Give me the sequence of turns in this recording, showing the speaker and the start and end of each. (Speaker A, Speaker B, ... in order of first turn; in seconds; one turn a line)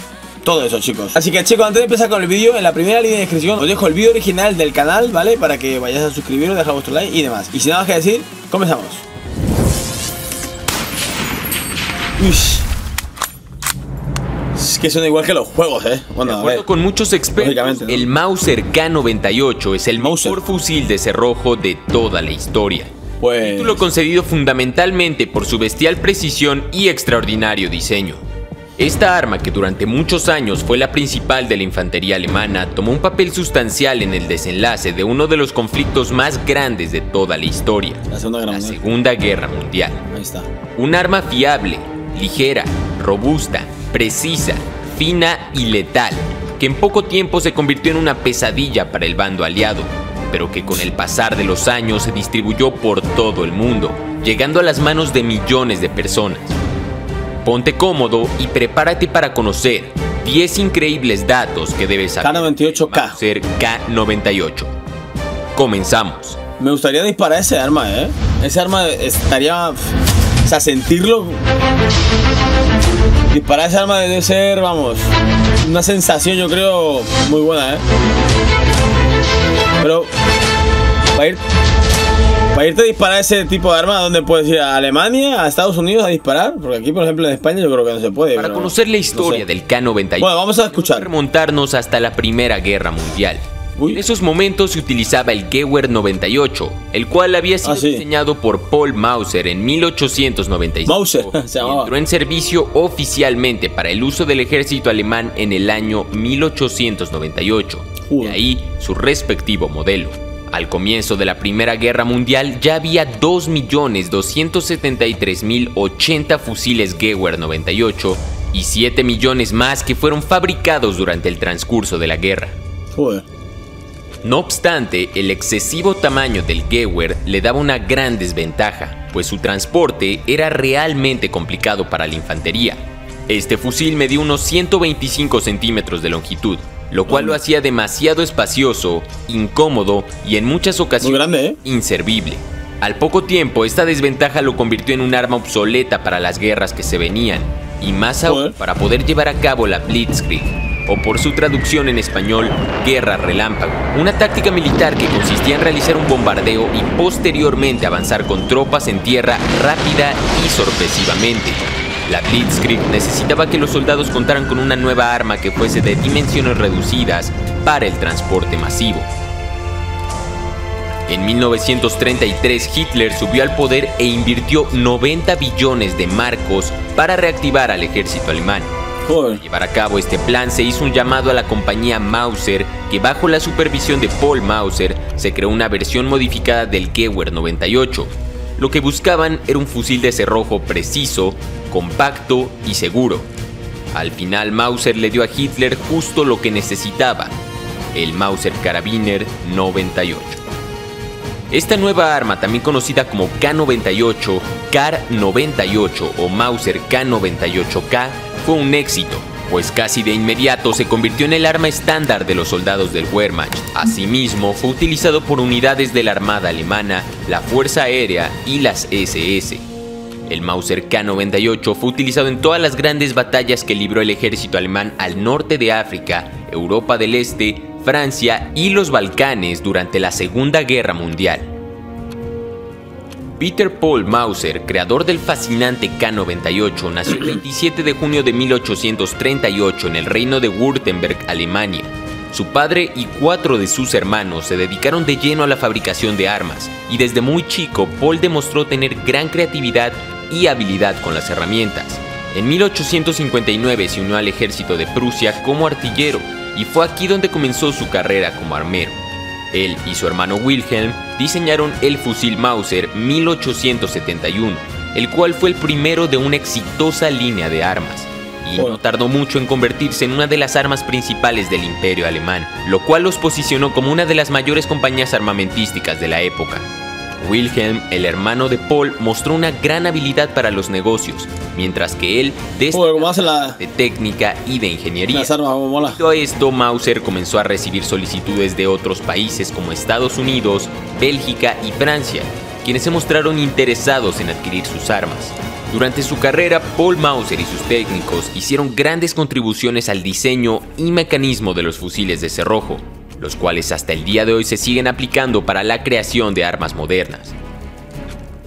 Speaker A: 0.4-9.1
Speaker A: 12.2-12.7
Speaker A: 14.6-16.6
Speaker B: 16.2-28.2
Speaker A: 17.4-18.1
Speaker A: 20.0-20.4
Speaker A: 23.2-23.8
Speaker B: 28.8-40.0
Speaker A: 38.1-38.8
Speaker A: 40.1-40.5
Speaker B: 40.8-56.6
Speaker B: 57.4-64.7
Speaker A: 62.2-63.2
Speaker B: 65.5-66.4
Speaker A: 66.6-69.9
Speaker A: 70.5-71.4
Speaker A: 73.3-75.1
Speaker A: 75.6-77.8
Speaker A: 79.8-80.1
Speaker A: 81.2-81.4
Speaker A: 82.5-89.4
Speaker B: 88.3-122.6
Speaker A: 90.2-91.1
Speaker A: 93.8-94.0
Speaker A: 97.6-98.0
Speaker A: 100.9-101.9
Speaker A: 108.0-108.4
Speaker A: 122.9-123.2
Speaker B: 124.2-169.1
Speaker A: 137.1-137.4
Speaker A: 141.0-141.6
Speaker A: 148.2-148.6
Speaker B: 171.1-178.7
Speaker A: 179.1-179.4
Speaker B: 179.3-193.3
Speaker B: 193.9-197.4
Speaker B: 197.9-200.4
Speaker B: 201.5-219.7
Speaker B: 220.3-231.5
Speaker B: 233.4-259.0
Speaker B: 259.5-276.7
Speaker B: 277.2-307.4
Speaker A: 282.7-283.6
Speaker A: 285.1-286.0